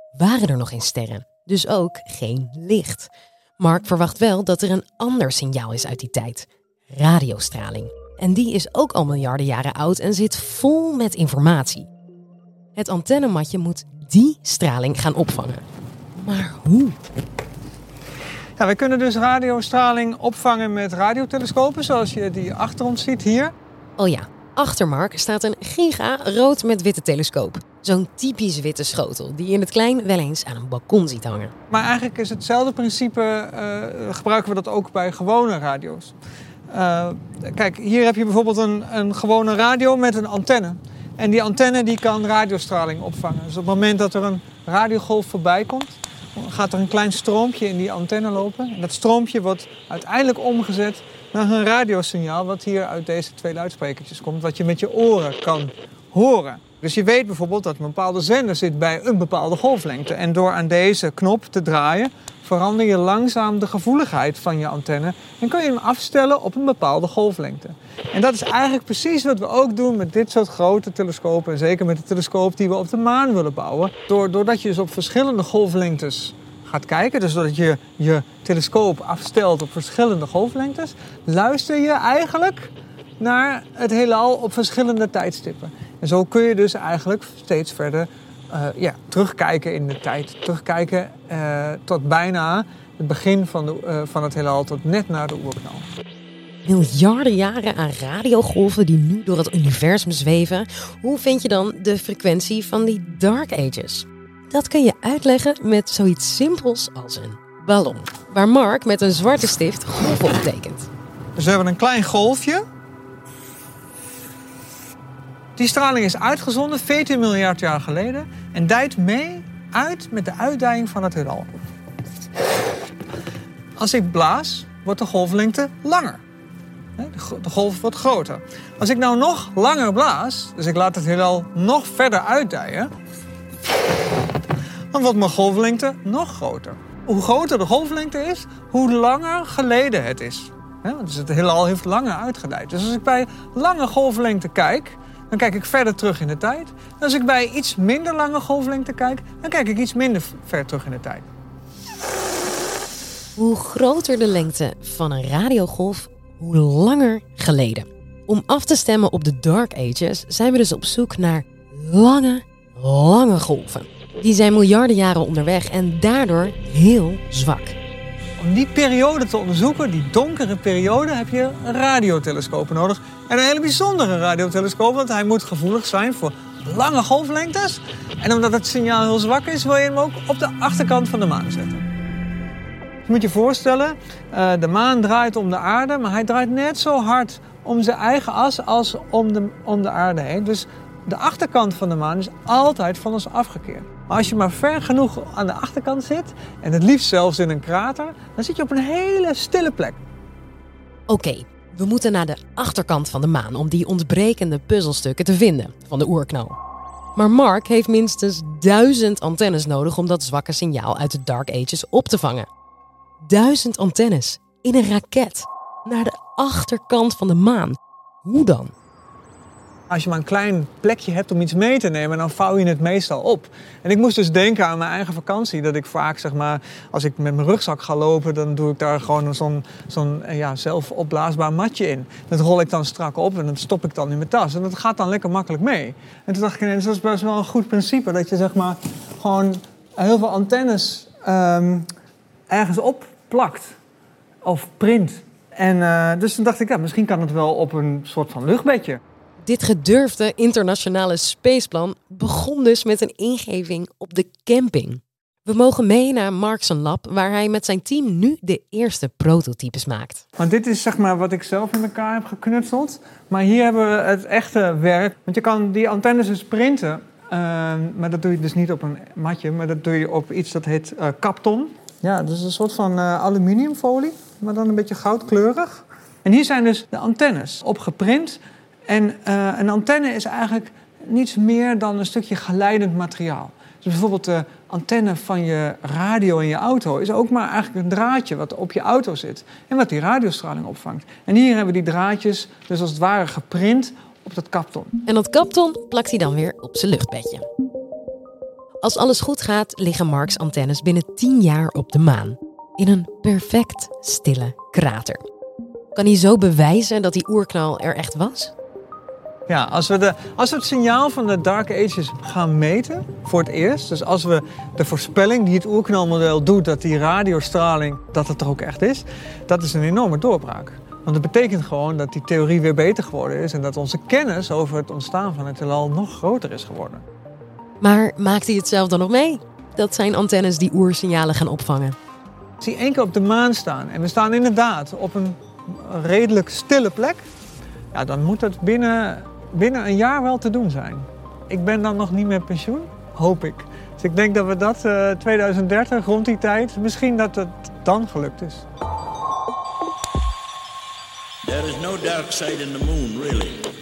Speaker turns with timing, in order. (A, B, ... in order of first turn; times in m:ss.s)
0:00.2-0:11.9 A
0:12.8-0:15.6 A
0:16.2-0:17.0 A
0:18.6-0:23.5 B
0:24.0-0:31.5 A
0:31.7-0:36.2 B
0:36.7-1:35.9 B
1:36.6-1:50.9 A
1:51.4-1:52.6 B
1:55.6-2:01.5 B
2:03.8-2:06.2 B
2:07.0-2:12.9 B
2:14.9-2:31.3 B
2:33.4-2:47.8 A
2:48.4-3:01.8 B
3:03.0-3:20.0 B
3:21.1-3:26.6 A
3:27.2-3:32.5 A
3:33.2-3:38.7 A
3:39.9-4:01.9 B
4:02.5-4:03.8 B
4:04.4-4:09.0 B
4:09.4-4:20.2 A
4:20.4-4:55.0 B
4:55.1-4:57.5 A
4:58.8-5:05.2 A
5:06.0-5:08.5 A
5:09.5-5:27.0 B
5:27.8-5:32.0 A
5:32.6-5:37.2 B
5:37.9-5:48.6 B
5:51.4-5:53.6 C